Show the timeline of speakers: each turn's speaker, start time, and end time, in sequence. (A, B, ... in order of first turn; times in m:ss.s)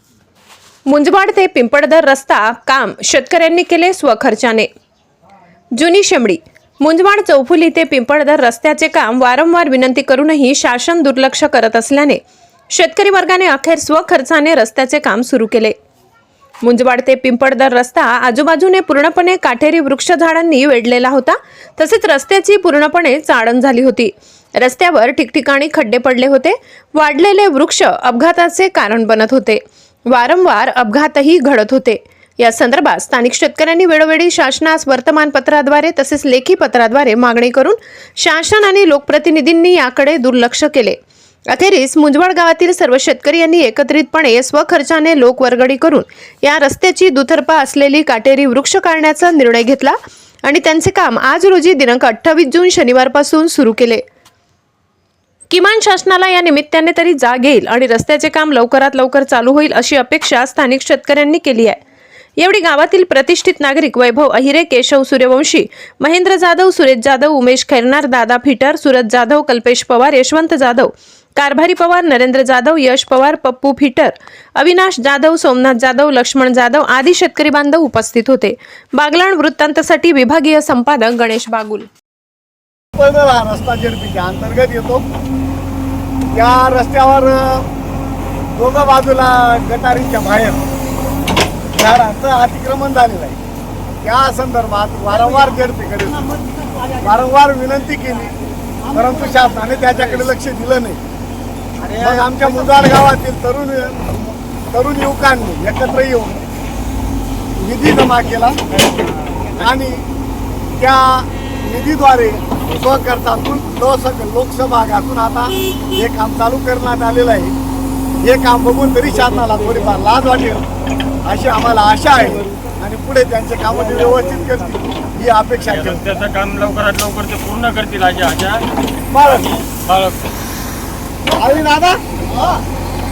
0:00.9-0:04.7 A
0:05.8-0:12.2 A
0:12.7-0:15.7 A
0:16.6-0:41.0 A
0:41.5-0:54.0 A
0:55.5-1:01.8 A
1:02.4-1:21.9 A
1:23.0-1:25.0 B
1:26.3-1:27.6 B
1:28.5-1:30.6 B
1:31.7-1:33.4 B
1:34.0-1:36.2 B
1:37.0-1:38.3 B
1:38.9-1:41.0 B
1:41.8-1:42.4 C
1:42.0-1:46.5 B
1:47.6-1:48.8 B
1:48.8-1:49.5 C
1:49.6-1:50.0 B
1:50.8-1:57.5 B
1:58.2-2:00.7 B
2:01.2-2:06.0 B
2:05.6-2:08.6 C
2:09.1-2:09.5 B
2:09.4-2:10.2 C
2:11.3-2:12.0 B